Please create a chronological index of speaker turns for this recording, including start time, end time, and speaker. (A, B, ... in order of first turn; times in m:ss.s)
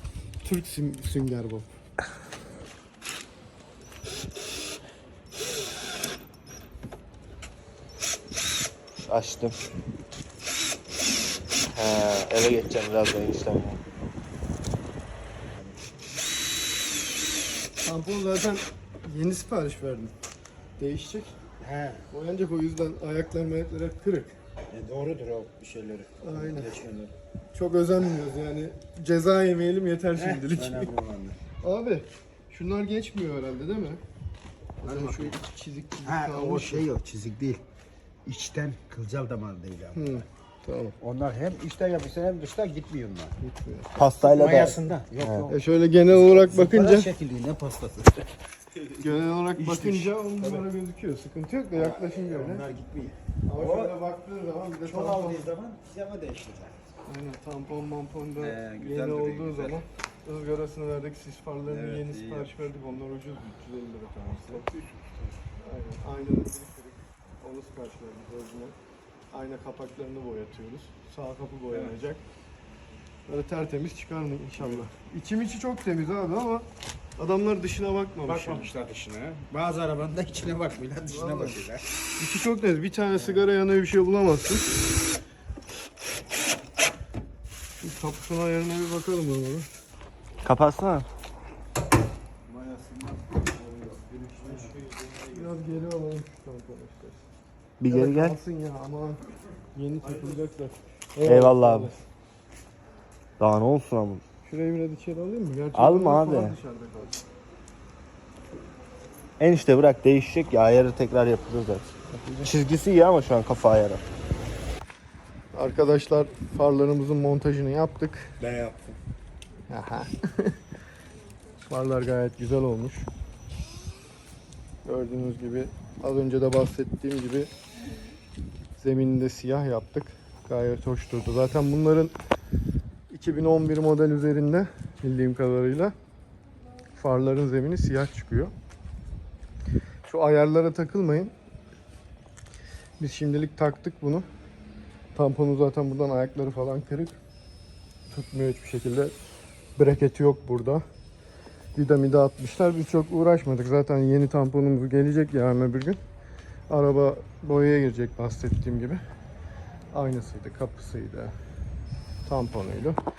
0:00.4-0:01.7 A
0:09.1-0:09.6 B
0:11.7-0:13.8 B
0:15.6-0:15.8 C
0:17.8-0:20.1 A
0:20.8-0:21.4 A
0:21.6-0:22.1 C
0:22.1-0:24.4 A
0:24.7-0:27.1 C
0:26.2-0:26.8 A
0:27.5-0:30.9 A
0:30.2-0:31.4 C
0:31.6-0:34.0 A
0:34.8-0:36.9 A
0:34.8-0:35.4 C
0:36.0-0:37.6 C
0:38.2-0:40.2 C
0:39.9-0:41.0 A
0:41.0-0:43.4 C
0:43.4-0:43.9 A
0:44.0-0:45.5 B
0:44.2-0:45.6 C
0:45.5-0:47.1 A
0:46.1-0:48.3 C
0:49.0-0:52.7 A
0:49.6-0:50.1 B
0:51.7-0:54.0 C
0:53.5-0:55.5 A
0:54.8-0:56.8 C
0:57.1-1:04.6 A
0:58.4-0:59.8 C
1:01.7-1:02.7 C
1:04.3-1:05.4 C
1:05.6-1:08.8 A
1:09.3-1:12.2 A
1:13.3-1:16.7 A
1:17.2-1:18.7 A
1:18.2-1:21.9 C
1:21.1-1:21.6 A
1:22.2-1:24.7 A
1:27.8-1:29.7 A
1:30.4-1:31.1 B
1:32.5-1:35.6 C
1:35.3-1:37.2 A
1:37.8-1:38.4 B
1:37.9-1:39.2 A
1:39.8-1:42.0 A
1:41.3-1:41.9 B
1:43.4-1:44.2 B
1:44.5-1:47.2 A
1:45.8-1:46.6 B
1:49.4-1:54.0 B
1:52.1-1:52.5 A
1:55.5-1:58.3 A
1:58.4-1:59.0 B
1:59.7-2:00.6 A
2:01.7-2:03.1 A
2:04.8-2:07.5 A
2:08.8-2:12.1 A
2:13.1-2:15.9 A
2:17.0-2:18.5 A
2:20.0-2:21.3 A
2:23.0-2:24.3 A
2:25.1-2:27.2 A
2:28.1-2:29.2 A
2:29.8-2:30.8 A
2:31.8-2:36.0 A
2:36.7-2:39.0 A
2:39.9-2:41.3 A
2:42.3-2:43.0 A